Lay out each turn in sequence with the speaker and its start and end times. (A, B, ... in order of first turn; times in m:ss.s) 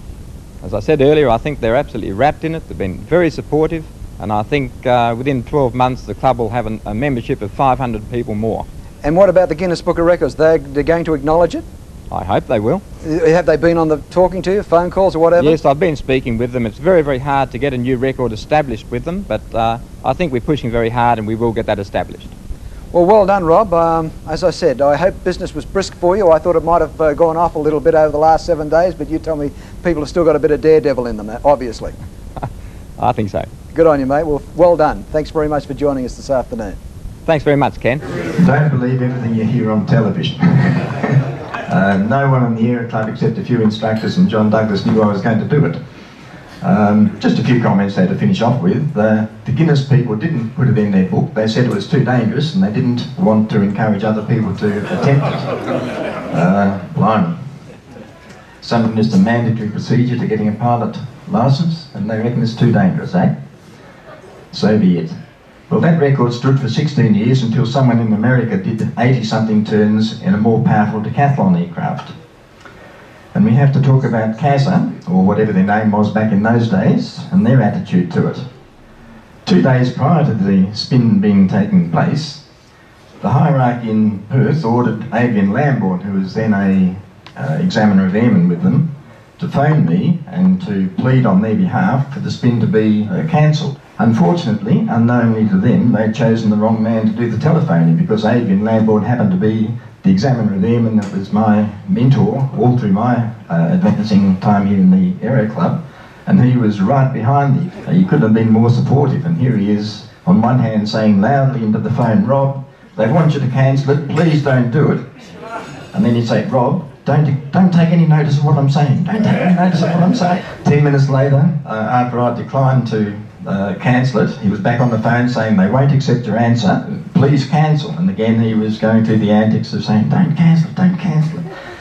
0:00.6-0:08.6 A
0:09.0-0:11.6 B
0:12.1-0:12.8 A
0:13.0-0:15.6 B
0:15.4-0:22.3 A
0:22.9-0:31.9 B
0:33.0-0:33.5 A
0:33.7-0:36.8 B
0:37.2-0:38.0 A
0:38.3-0:45.8 C
0:46.6-0:55.5 C
0:56.3-0:57.4 C
0:58.6-1:03.3 C
1:04.5-1:05.2 C
1:05.7-1:12.1 C
1:13.3-1:18.4 C
1:19.4-1:22.4 C
1:23.2-1:55.0 C
1:55.9-2:11.4 C